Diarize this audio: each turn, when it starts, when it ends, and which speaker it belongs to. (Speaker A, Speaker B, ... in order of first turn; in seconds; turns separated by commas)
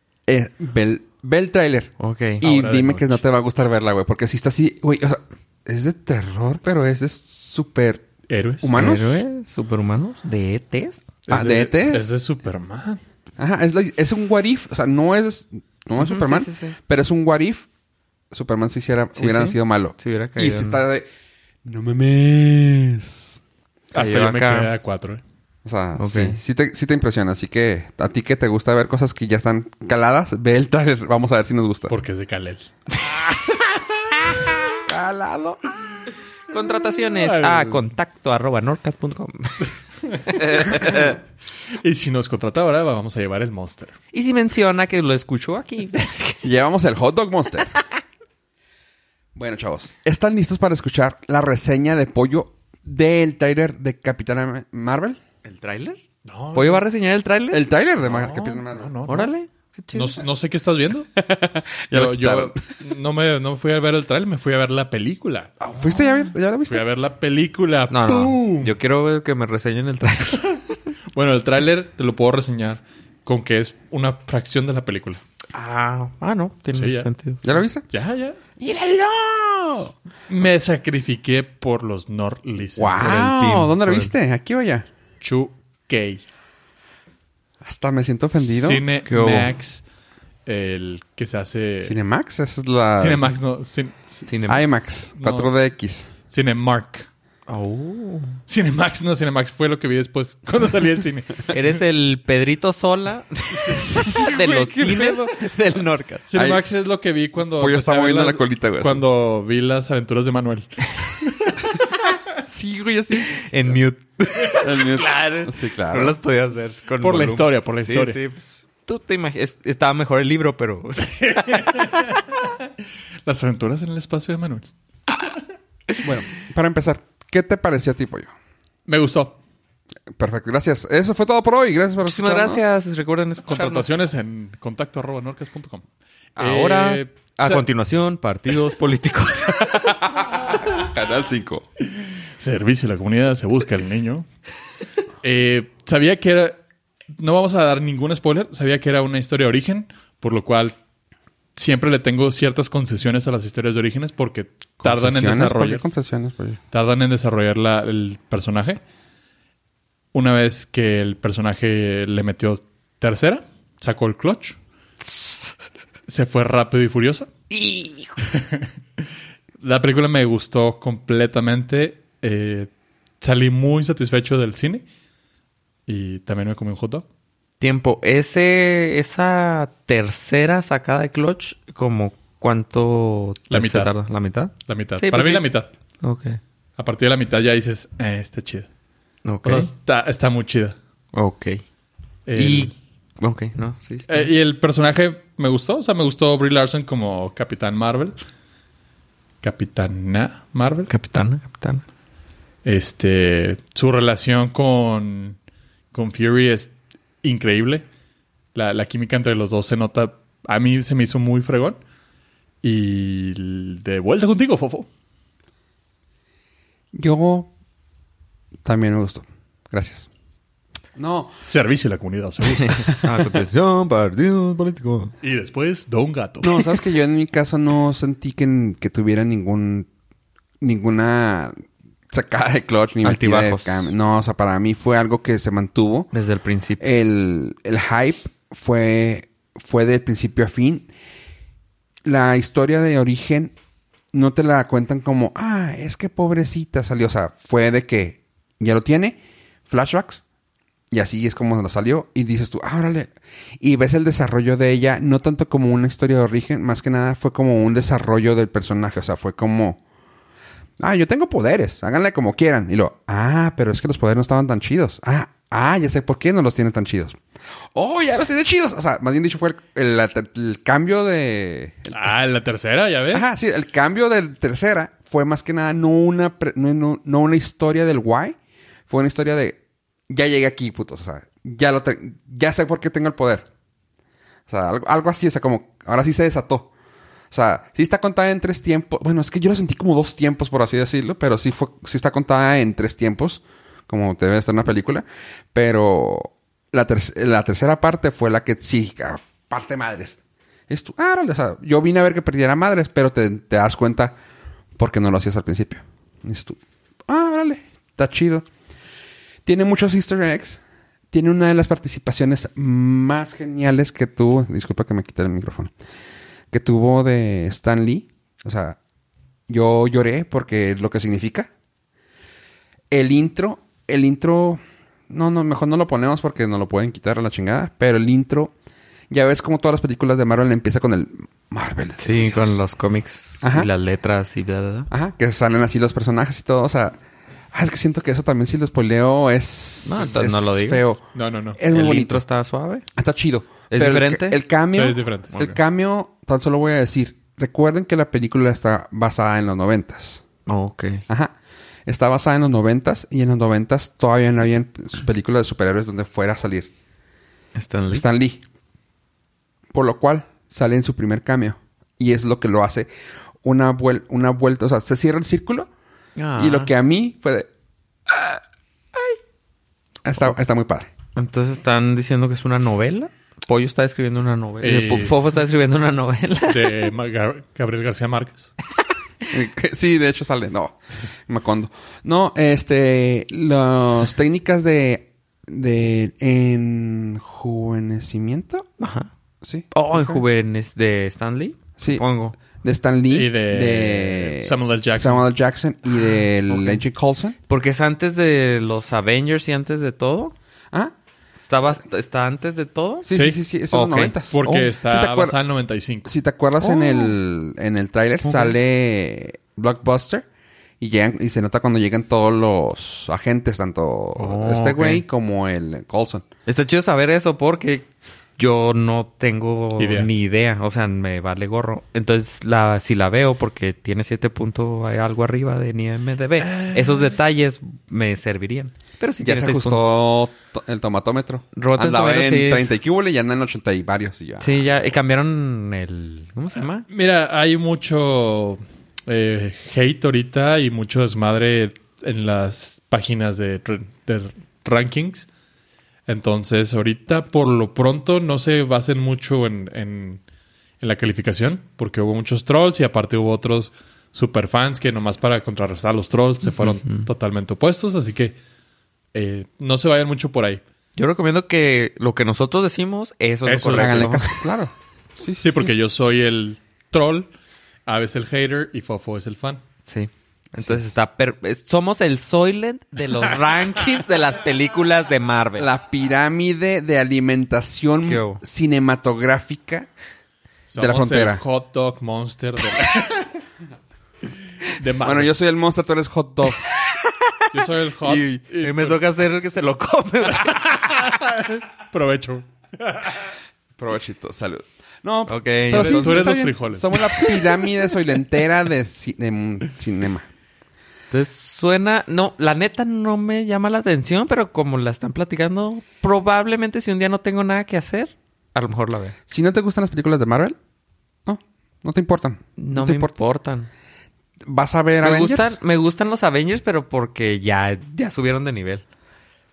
Speaker A: 0.3-8.1, Speaker B: 2.0-2.4, Speaker C: 2.4-3.2, Speaker C: 8.3-8.8, Speaker A: 8.6-9.2, Speaker B: 8.7-11.1, Speaker C: 11.3-13.0, Speaker A: 11.3-12.0, Speaker A: 13.4-17.7, Speaker B: 16.0-16.8, Speaker A: 18.3-21.1, Speaker B: 19.1-20.8, Speaker A: 21.6-23.4, Speaker C: 23.9-25.2, Speaker B: 23.9-24.7, Speaker A: 25.6-31.9, Speaker B: 26.0-26.4, Speaker C: 31.9-32.7, Speaker A: 34.9-35.6, Speaker B: 36.5-39.7, Speaker C: 37.1-37.9, Speaker C: 40.0-41.1, Speaker B: 40.3-41.2, Speaker C: 41.8-44.0, Speaker B: 44.1-46.4, Speaker A: 46.4-47.7, Speaker A: 49.3-55.2, Speaker B: 55.4-56.0, Speaker C: 56.2-56.9, Speaker B: 56.5-57.6, Speaker A: 57.5-58.9, Speaker C: 58.0-59.3, Speaker B: 59.1-60.2, Speaker C: 59.9-61.1, Speaker A: 61.1-62.6, Speaker C: 61.9-65.5, Speaker B: 65.6-66.3, Speaker A: 65.8-66.8, Speaker C: 66.7-68.7, Speaker B: 67.9-70.6, Speaker C: 71.1-75.2, Speaker B: 75.5-77.5, Speaker C: 76.7-77.1, Speaker A: 77.4-77.8, Speaker C: 77.9-78.4, Speaker A: 78.6-79.9, Speaker C: 80.3-83.2, Speaker A: 82.8-84.8, Speaker B: 83.0-84.1, Speaker C: 85.2-86.2, Speaker A: 87.6-88.8, Speaker C: 88.4-89.8, Speaker B: 89.0-89.5, Speaker C: 90.5-92.0, Speaker A: 91.8-93.3, Speaker C: 93.0-95.6, Speaker B: 94.3-94.6, Speaker A: 94.5-96.1, Speaker C: 96.3-97.1, Speaker B: 97.5-98.4, Speaker C: 98.5-101.8, Speaker B: 101.5-106.2, Speaker A: 104.0-105.4, Speaker C: 106.3-111.6, Speaker A: 106.3-106.6, Speaker A: 107.6-109.0, Speaker A: 112.4-113.4, Speaker B: 113.3-122.0, Speaker A: 114.5-116.2, Speaker C: 117.0-118.2, Speaker C: 121.4-122.2, Speaker C: 123.2-124.7, Speaker A: 126.0-128.3, Speaker C: 128.9-129.4, Speaker A: 130.2-132.6, Speaker B: 132.0-133.9, Speaker C: 133.5-135.8, Speaker B: 136.3-139.7, Speaker C: 136.4-137.7, Speaker A: 139.5-141.7, Speaker C: 142.4-144.3, Speaker C: 145.2-146.6, Speaker C: 147.2-150.8, Speaker C: 151.6-155.8, Speaker A: 154.8-156.6, Speaker C: 156.7-158.8, Speaker C: 160.1-164.6, Speaker C: 166.1-167.3, Speaker B: 167.5-168.2, Speaker C: 168.3-168.7, Speaker C: 169.6-172.7, Speaker C: 173.2-174.8, Speaker C: 175.9-177.1, Speaker B: 177.6-185.5, Speaker C: 183.5-183.9, Speaker C: 184.7-185.7, Speaker B: 186.0-186.4, Speaker C: 186.8-188.7, Speaker B: 189.2-189.7, Speaker C: 189.4-190.8, Speaker B: 191.1-191.6, Speaker C: 192.2-192.7, Speaker B: 192.4-194.3, Speaker C: 194.1-198.2, Speaker C: 199.4-200.9, Speaker B: 200.9-201.8, Speaker C: 202.6-205.4, Speaker C: 205.9-207.8, Speaker C: 208.5-211.8, Speaker C: 212.6-214.9, Speaker A: 216.9-217.5, Speaker A: 218.6-220.1, Speaker A: 220.9-221.4, Speaker C: 221.4-222.9, Speaker B: 222.7-225.1, Speaker C: 225.2-226.7, Speaker A: 226.4-229.9, Speaker A: 230.6-236.1, Speaker B: 233.0-233.9, Speaker B: 236.1-236.9, Speaker A: 236.8-240.9, Speaker A: 242.0-243.5, Speaker A: 244.1-250.2, Speaker A: 250.9-259.8, Speaker A: 260.8-267.2, Speaker A: 267.7-272.1, Speaker C: 271.9-273.2, Speaker A: 273.1-278.4, Speaker A: 278.9-283.5, Speaker A: 284.5-286.7, Speaker A: 287.3-304.1, Speaker A: 304.8-308.4, Speaker A: 309.4-315.7, Speaker A: 316.5-318.8, Speaker A: 319.5-321.5, Speaker A: 322.9-328.5, Speaker A: 329.1-332.6, Speaker B: 332.0-334.9, Speaker A: 333.4-333.7, Speaker A: 334.9-337.0, Speaker A: 337.5-341.0, Speaker B: 339.8-340.8, Speaker C: 341.1-341.6, Speaker A: 341.6-342.2, Speaker B: 341.7-342.8, Speaker A: 342.9-350.2, Speaker B: 343.7-344.4, Speaker C: 344.7-345.3, Speaker B: 350.5-351.0, Speaker A: 351.1-351.3, Speaker A: 351.9-356.7, Speaker B: 357.5-358.1, Speaker A: 357.9-358.4, Speaker A: 359.7-362.9, Speaker A: 363.4-365.7, Speaker B: 366.2-366.7, Speaker A: 366.4-367.5, Speaker A: 370.0-370.9, Speaker B: 371.1-376.9, Speaker C: 374.6-375.3, Speaker C: 376.5-378.5, Speaker A: 379.3-388.7, Speaker B: 388.8-389.1, Speaker A: 389.4-390.2, Speaker B: 389.7-392.4, Speaker A: 391.8-397.4, Speaker C: 393.1-395.2, Speaker B: 396.5-396.8, Speaker B: 397.5-400.3, Speaker B: 401.4-403.1, Speaker A: 403.0-405.4, Speaker C: 403.1-403.4, Speaker B: 403.7-404.6, Speaker C: 404.3-406.1, Speaker A: 406.1-410.2, Speaker B: 406.6-407.1, Speaker B: 408.2-408.5, Speaker A: 410.8-416.2, Speaker B: 414.2-415.0, Speaker B: 416.4-429.8, Speaker C: 419.8-420.1, Speaker C: 426.4-427.1, Speaker A: 429.2-434.7, Speaker B: 431.5-432.7, Speaker B: 434.4-436.9, Speaker C: 436.9-445.3, Speaker C: 446.1-450.2, Speaker C: 450.8-458.4, Speaker B: 456.4-457.1, Speaker C: 459.1-460.6, Speaker B: 461.0-464.4, Speaker C: 463.4-464.2, Speaker A: 463.8-465.7, Speaker C: 465.4-467.3, Speaker C: 467.9-469.6, Speaker B: 469.8-475.7, Speaker A: 470.6-470.8, Speaker A: 475.6-479.9, Speaker B: 478.0-478.4, Speaker C: 480.7-483.3, Speaker A: 480.8-481.4, Speaker C: 484.7-485.3, Speaker A: 485.0-486.6, Speaker B: 486.7-491.2, Speaker C: 487.5-489.1, Speaker C: 490.8-493.3, Speaker A: 493.8-500.3, Speaker B: 495.3-496.4, Speaker C: 495.7-497.3, Speaker B: 501.1-509.1, Speaker A: 509.3-510.6, Speaker A: 511.2-513.1, Speaker B: 512.6-513.7, Speaker A: 514.4-515.6, Speaker B: 515.0-518.8